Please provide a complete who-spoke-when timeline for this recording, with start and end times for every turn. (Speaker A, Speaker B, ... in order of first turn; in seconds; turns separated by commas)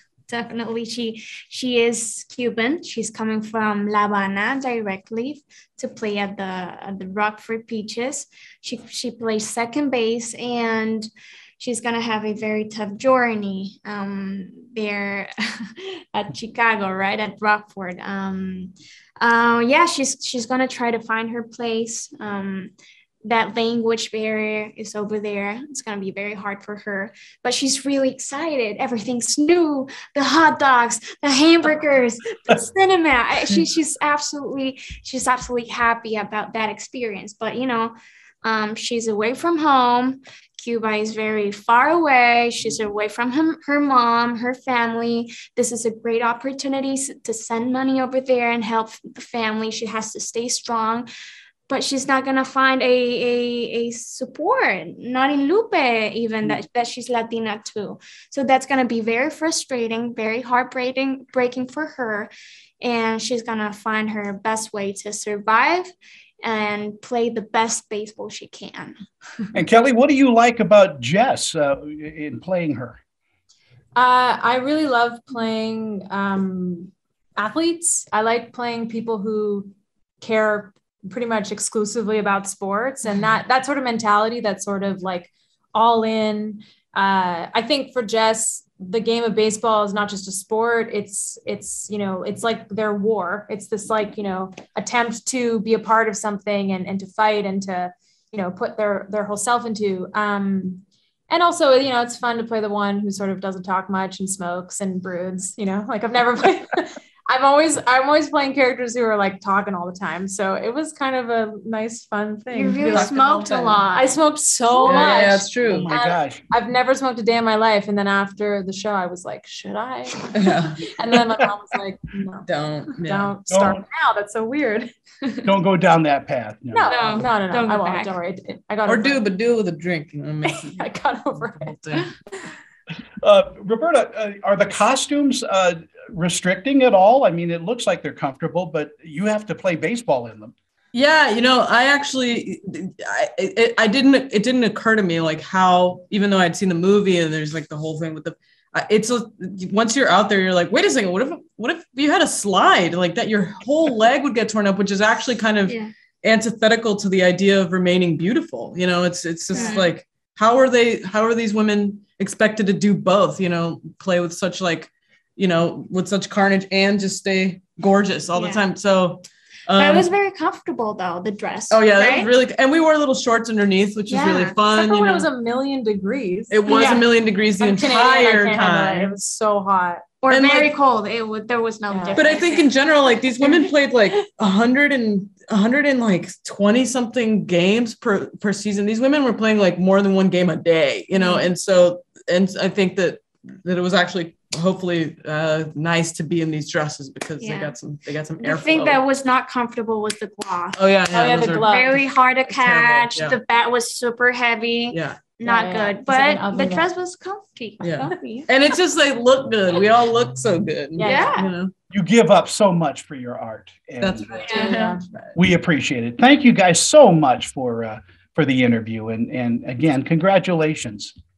Speaker A: 0.3-15.3, Speaker A: 16.1-51.1, Speaker A: 51.7-65.9, Speaker A: 66.4-69.0, Speaker B: 69.5-73.0, Speaker C: 73.9-113.1, Speaker A: 112.5-114.1, Speaker D: 112.9-113.6, Speaker C: 113.9-124.9, Speaker A: 114.7-115.1, Speaker D: 114.8-115.9, Speaker B: 115.6-116.4, Speaker D: 120.3-120.9, Speaker D: 122.5-123.4, Speaker B: 123.5-123.8, Speaker B: 125.5-127.0, Speaker C: 126.7-129.3, Speaker A: 126.9-128.1, Speaker D: 128.8-130.9, Speaker C: 130.4-132.0, Speaker D: 131.4-132.1, Speaker B: 133.2-140.5, Speaker D: 140.9-170.1, Speaker A: 155.7-155.9, Speaker A: 159.6-159.9, Speaker A: 168.3-168.6, Speaker A: 169.8-172.3, Speaker D: 171.7-175.2, Speaker A: 174.1-174.6, Speaker C: 174.6-180.0, Speaker D: 176.5-179.1, Speaker A: 176.7-177.0, Speaker A: 180.2-183.7, Speaker D: 180.3-180.7, Speaker C: 181.9-182.2, Speaker D: 182.2-199.0, Speaker A: 191.1-191.5, Speaker A: 197.4-197.8, Speaker A: 198.3-208.8, Speaker D: 200.8-203.3, Speaker C: 201.1-202.0, Speaker D: 204.9-205.3, Speaker C: 205.4-206.9, Speaker D: 207.8-211.7, Speaker C: 210.9-211.3, Speaker A: 211.0-211.5, Speaker B: 211.9-214.3, Speaker D: 214.0-215.3, Speaker A: 214.4-214.9, Speaker C: 214.5-215.0, Speaker B: 215.3-221.1